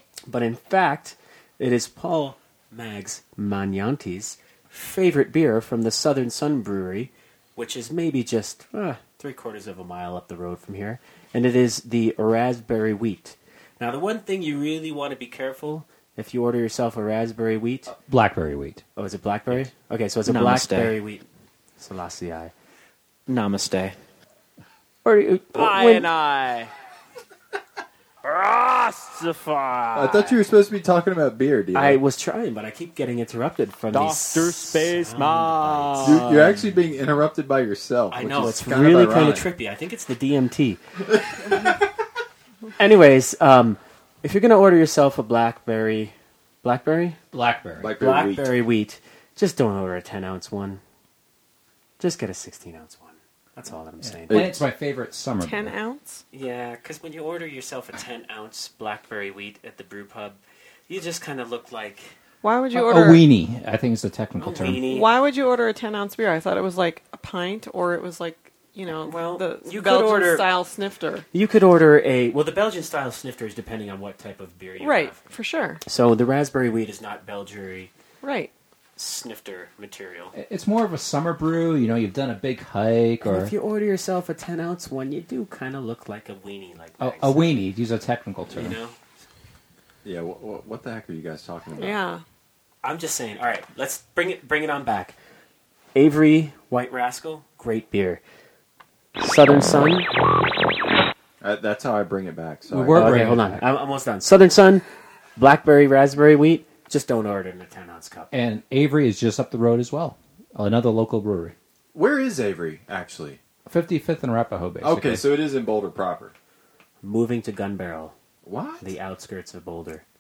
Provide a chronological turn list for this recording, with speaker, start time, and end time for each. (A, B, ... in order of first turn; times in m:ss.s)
0:00.3-0:17.9 A
0:17.9-0:18.8 B
0:19.0-0:21.2 A
0:20.2-0:20.7 C
0:20.6-0:20.9 B
0:21.8-0:22.5 A
0:23.3-0:23.9 A
0:25.4-0:26.7 C
0:25.6-0:26.0 A
0:28.2-0:30.4 C
0:29.9-0:32.0 D
0:31.7-0:36.2 A
0:33.9-0:36.6 C
0:36.0-0:39.4 D
0:38.1-0:40.8 A
0:42.8-0:47.2 A
0:47.3-0:47.9 B
0:47.8-0:48.5 D
0:48.0-0:50.8 A
0:52.0-0:54.5 A
0:54.0-0:55.7 B
0:54.3-0:54.6 D
0:55.4-0:56.2 E
0:56.3-1:02.1 A
1:02.4-1:03.2 E
1:02.7-1:04.8 B
1:04.4-1:05.1 A
1:04.8-1:11.2 E
1:09.0-1:10.5 A
1:11.3-1:15.2 A
1:14.8-1:15.8 E
1:15.8-1:17.9 A
1:18.2-1:18.5 E
1:19.0-1:20.3 A
1:20.3-1:23.5 B
1:23.2-1:27.6 A
1:27.0-1:28.8 B
1:28.5-1:29.0 A
1:30.0-1:32.0 D
1:31.8-1:32.2 E
1:32.8-1:35.2 A
1:35.9-1:38.2 A
1:39.2-1:40.1 A
1:41.4-1:43.1 D
1:42.7-1:43.6 B
1:42.9-1:44.8 A
1:45.4-1:48.3 A
1:48.3-1:51.5 B
1:51.9-1:53.4 D
1:53.6-1:55.2 B
1:54.8-1:56.3 D
1:57.0-1:58.1 A
1:58.4-1:58.9 D
1:58.8-2:00.0 A